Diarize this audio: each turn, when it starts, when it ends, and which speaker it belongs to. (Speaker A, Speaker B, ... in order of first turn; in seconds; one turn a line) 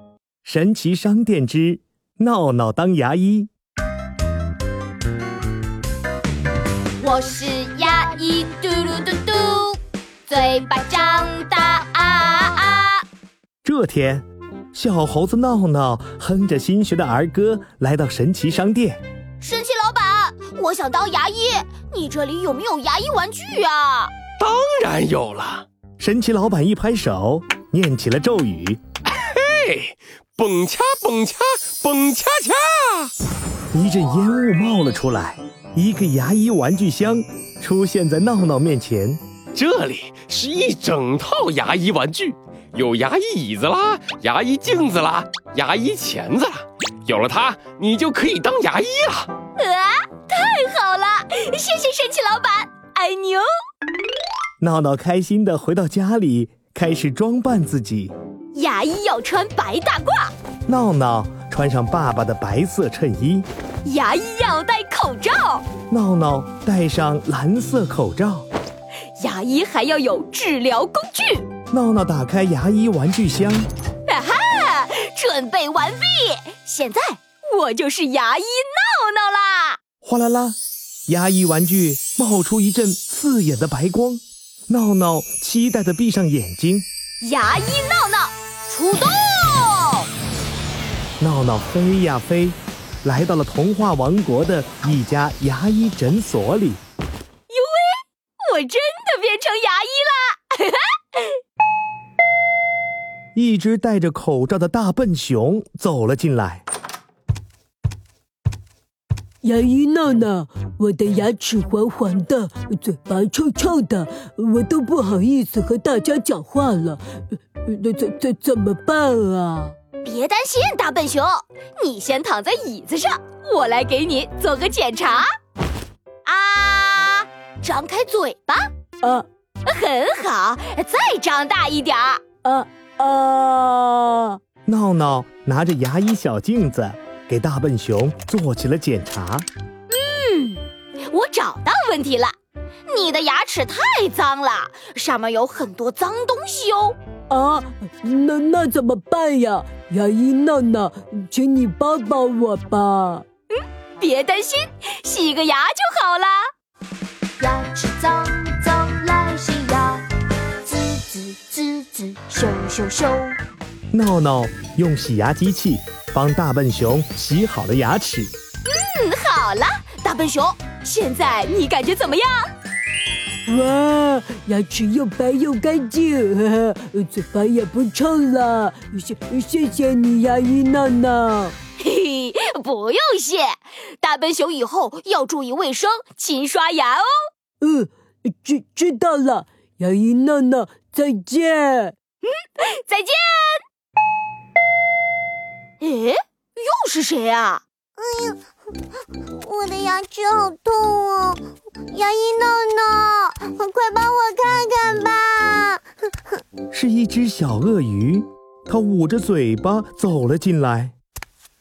Speaker A: 0.4-3.5
Speaker B: 7.0-13.0
Speaker A: 13.6-19.0
Speaker B: 19.4-24.1
Speaker C: 24.4-25.6
Speaker A: 26.0-28.8
Speaker C: 29.2-33.1
Speaker A: 33.7-39.2
Speaker C: 39.5-49.3
Speaker B: 49.6-53.5
Speaker A: 54.6-58.1
Speaker B: 58.5-60.3
Speaker A: 60.7-63.5
Speaker B: 63.8-65.6
Speaker A: 65.9-68.5
Speaker B: 69.2-71.5
Speaker A: 71.7-73.7
Speaker B: 74.1-79.8
Speaker A: 80.0-86.8
Speaker B: 87.2-90.1
Speaker A: 91.2-96.8
Speaker B: 97.5-101.3
Speaker A: 103.3-106.6
Speaker D: 109.4-119.7
Speaker B: 120.0-125.3
Speaker B: 126.2-128.7
Speaker B: 129.6-132.2
Speaker D: 132.4-134.4
Speaker A: 134.7-139.4
Speaker B: 139.9-142.3
Speaker B: 142.9-146.9
Speaker D: 147.3-153.2
Speaker B: 153.9-156.4
Speaker B: 157.4-160.0
Speaker B: 160.7-163.3
Speaker A: 163.9-168.3
Speaker B: 168.7-172.5
Speaker D: 173.5-181.6
Speaker B: 181.8-187.1
Speaker D: 187.6-191.9
Speaker B: 192.3-193.6
Speaker B: 195.8-197.6
Speaker E: 198.0-198.4
Speaker E: 199.4-205.8
Speaker A: 206.7-210.9